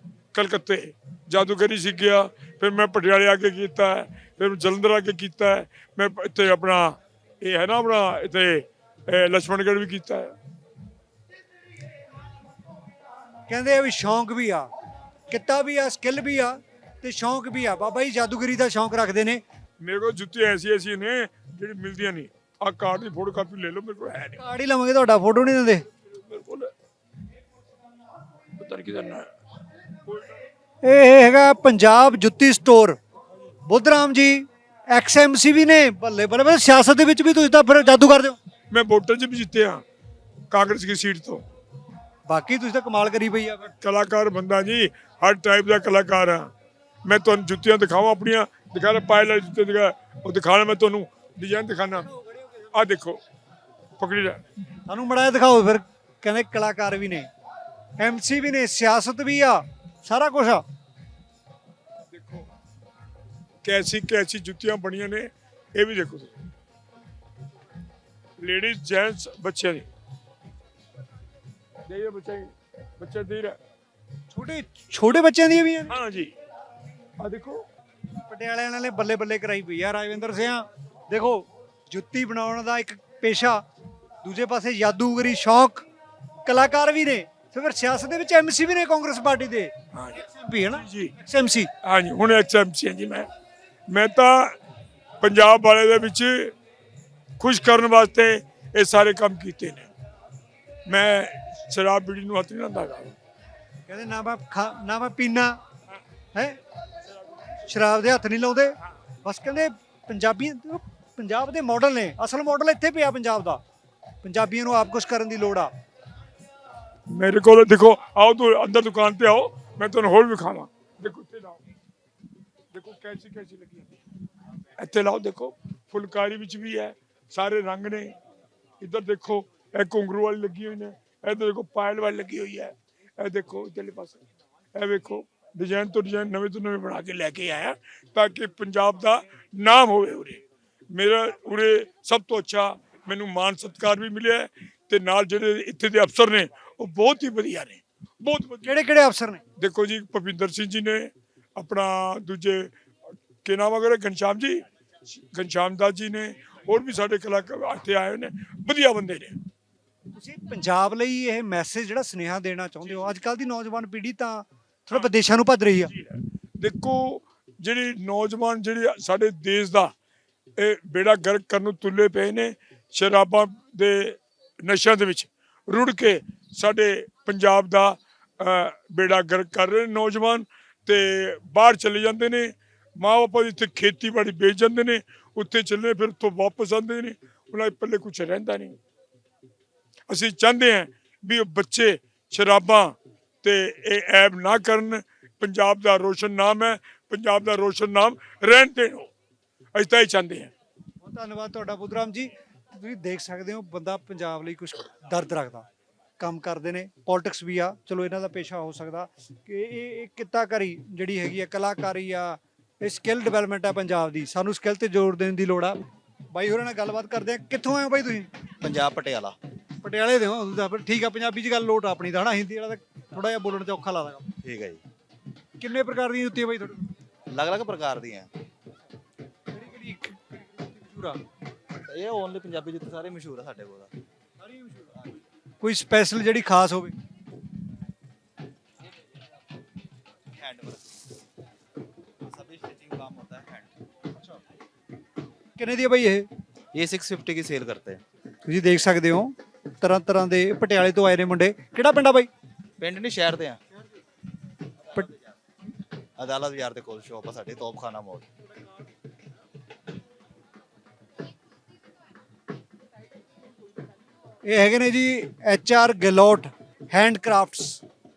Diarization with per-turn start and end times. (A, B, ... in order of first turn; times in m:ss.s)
0:00.3-0:10.3 A
0:13.5-0:14.7 B
0:15.3-0:19.4 B
0:19.8-0:24.4 A
0:24.4-0:25.8 B
0:26.1-0:26.7 A
0:28.6-0:29.3 A
0:30.8-0:33.0 B
0:33.7-0:38.4 B
0:38.7-0:39.8 A
0:40.5-0:41.4 A
0:42.3-0:43.7 B
0:43.7-0:46.5 A
0:47.0-0:52.1 A
0:52.7-0:53.2 A
0:54.0-0:54.4 A
0:54.9-0:57.3 B
0:58.0-1:00.6 B
1:02.1-1:02.5 A
1:03.6-1:06.3 A
1:08.4-1:09.9 A
1:11.8-1:13.6 A
1:14.3-1:16.0 B
1:15.9-1:16.3 A
1:17.2-1:17.6 A
1:18.3-1:23.6 B
1:24.2-1:25.9 B
1:26.4-1:31.7 B
1:29.9-1:30.2 A
1:30.8-1:31.1 A
1:31.8-1:33.3 A
1:33.9-1:34.6 A
1:35.2-1:36.5 A
1:37.4-1:39.9 A
1:40.9-1:43.2 A
1:43.9-1:45.6 B
1:46.3-1:46.6 B
1:47.6-1:53.6 B
1:54.2-1:55.7 B
1:57.1-2:01.6 A
2:02.7-2:04.0 A
2:04.8-2:08.2 A
2:08.8-2:14.2 A
2:14.8-2:28.8 A
2:28.6-2:29.4 B
2:29.6-2:32.7 A
2:33.4-2:39.4 A
2:40.2-2:45.9 B
2:45.9-2:49.9 A
2:50.6-3:08.8 A
3:10.1-3:19.1 A
3:19.8-3:20.5 A
3:21.0-3:25.7 B
3:26.2-3:35.8 B
3:36.3-3:38.3 B
3:38.6-3:39.4 C
3:39.8-3:44.3 B
3:44.4-3:44.8 C
3:45.6-3:46.9 B
3:47.3-3:48.3 C
3:49.5-3:51.2 B
3:51.9-3:53.9 C
3:54.4-3:55.0 B
3:55.6-3:57.0 B
4:00.3-4:00.8 C
4:02.2-4:03.7 C
4:05.6-4:06.3 B
4:06.7-4:08.0 C
4:08.5-4:12.3 B
4:12.8-4:13.6 C
4:16.2-4:18.3 C
4:24.4-4:27.8 B